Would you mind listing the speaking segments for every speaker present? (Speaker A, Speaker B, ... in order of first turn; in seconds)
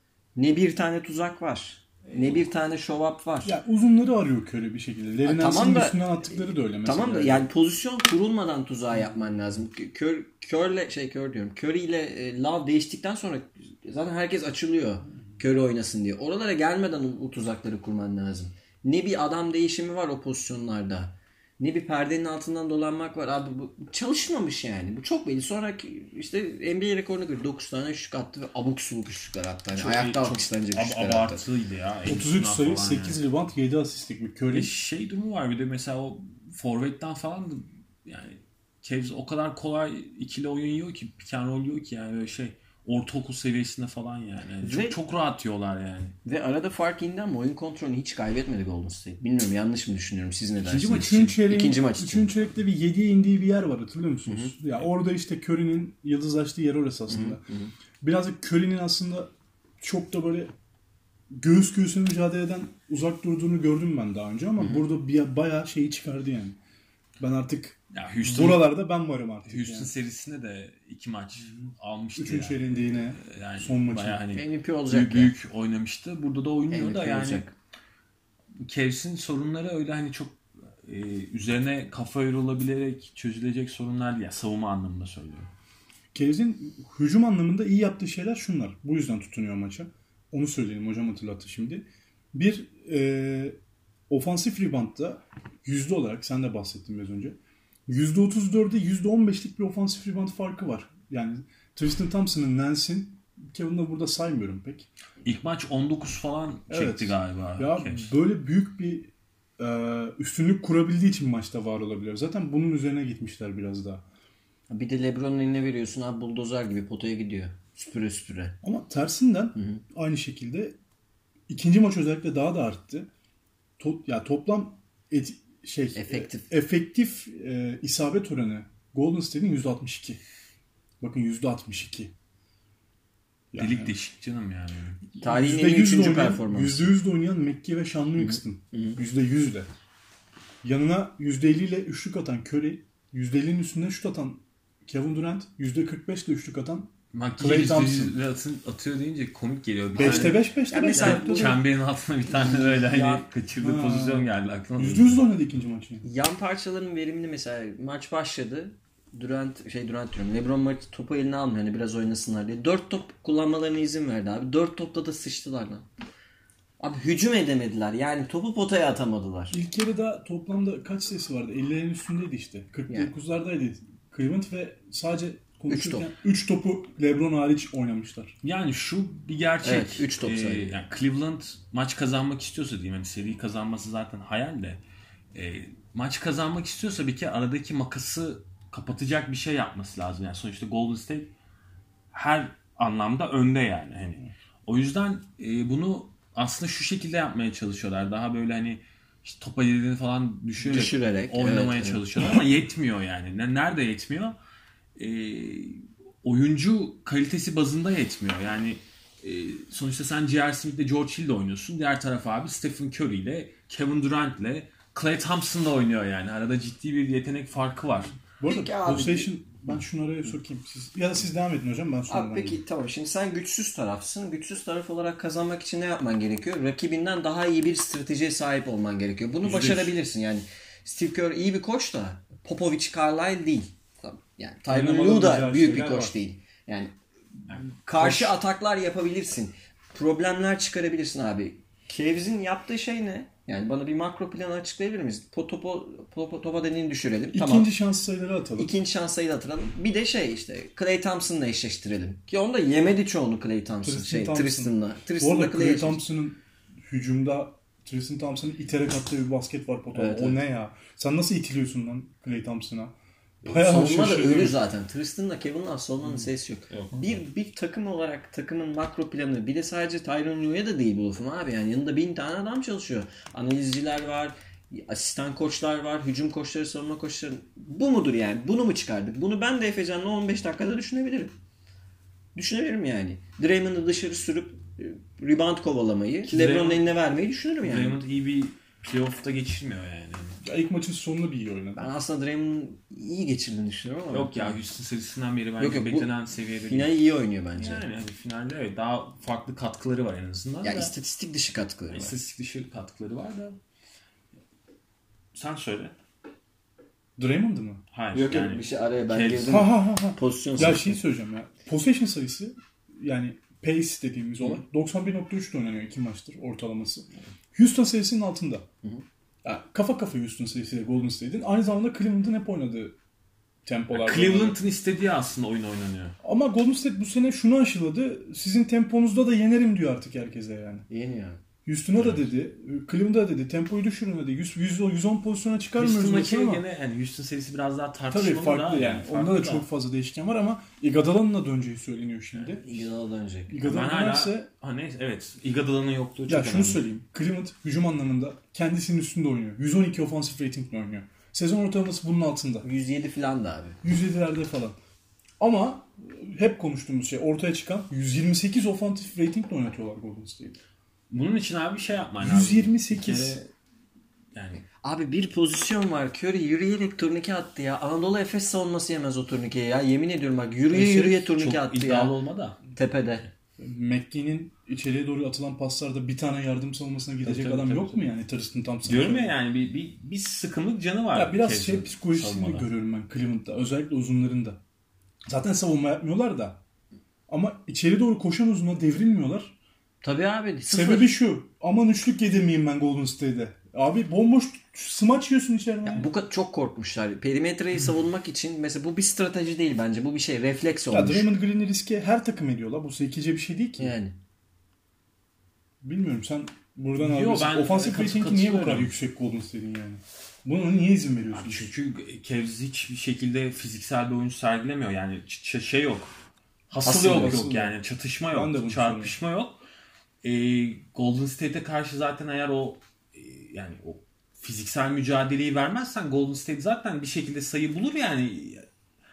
Speaker A: 0.4-3.5, 5.2-31.4, 44.6-45.0, 46.2-52.4, 54.3-54.5, 57.1-57.7, 74.3-75.3, 76.7-77.5, 114.7-118.6, 119.5-119.8, 126.0-126.5, 135.2-136.9, 138.2-139.0, 150.0-151.6, 152.3-153.3, 156.0-165.9, 166.8-169.6, 175.7-176.1, 179.6-180.8, 200.6-202.4, 218.5-219.3, 222.1-237.0, 237.5-247.7, 248.6-256.0, 259.9-260.4, 263.4-281.3, 282.4-288.0, 291.8-294.6, 295.6-296.1, 296.6-297.9, 300.6-302.1, 308.1-311.0, 330.9-331.4, 342.6-343.6, 352.6-353.8, 364.8-372.1, 372.7-373.3, 390.0-391.1, 395.9-401.3, 403.8-404.2, 416.8-417.4
Speaker B: 3.5-7.5, 32.1-34.7, 50.6-57.4, 58.0-60.5, 61.3-66.6, 67.2-69.9, 72.2-74.2, 86.1-104.9, 106.7-114.0, 118.6-120.8, 121.5-123.1, 123.8-130.2, 131.0-132.1, 133.5-133.9, 135.2-139.7, 140.6-148.2, 150.0-151.6, 153.6-156.1, 169.5-178.4, 218.4-222.6, 234.7-236.2, 238.0-238.3, 247.3-248.7, 253.8-264.6, 290.4-291.9, 307.2-307.8, 309.4-318.7, 319.4-323.0, 323.6-324.6, 326.2-330.9, 331.6-336.6, 338.1-342.9, 343.5-344.5, 346.3-352.7, 353.8-354.8, 355.4-360.6, 362.2-363.4, 373.6-379.4, 381.1-384.6, 385.3-386.6, 387.3-389.6, 390.7-396.1, 400.9-404.0, 405.8-411.7, 416.8-417.8, 418.3-419.1
Speaker C: 29.8-33.2, 34.5-46.2, 67.9-68.7, 69.5-77.5, 78.6-85.5, 105.2-108.1, 133.6-135.0, 147.1-155.2, 178.4-184.8, 185.3-191.3, 192.1-204.4, 205.0-218.2, 229.4-229.9, 266.7-267.2, 286.3-286.9, 287.6-290.4, 294.1-297.0, 297.6-300.9, 301.9-303.6, 305.3-305.9, 307.9-309.6, 323.9-326.2, 332.0-332.3, 335.8-339.7, 343.6-346.9, 361.1-363.5, 364.3-364.6, 370.7-372.6, 377.2-378.1, 378.9-382.7, 407.0-408.9, 411.3-416.1, 416.7-419.6, 420.2-428.7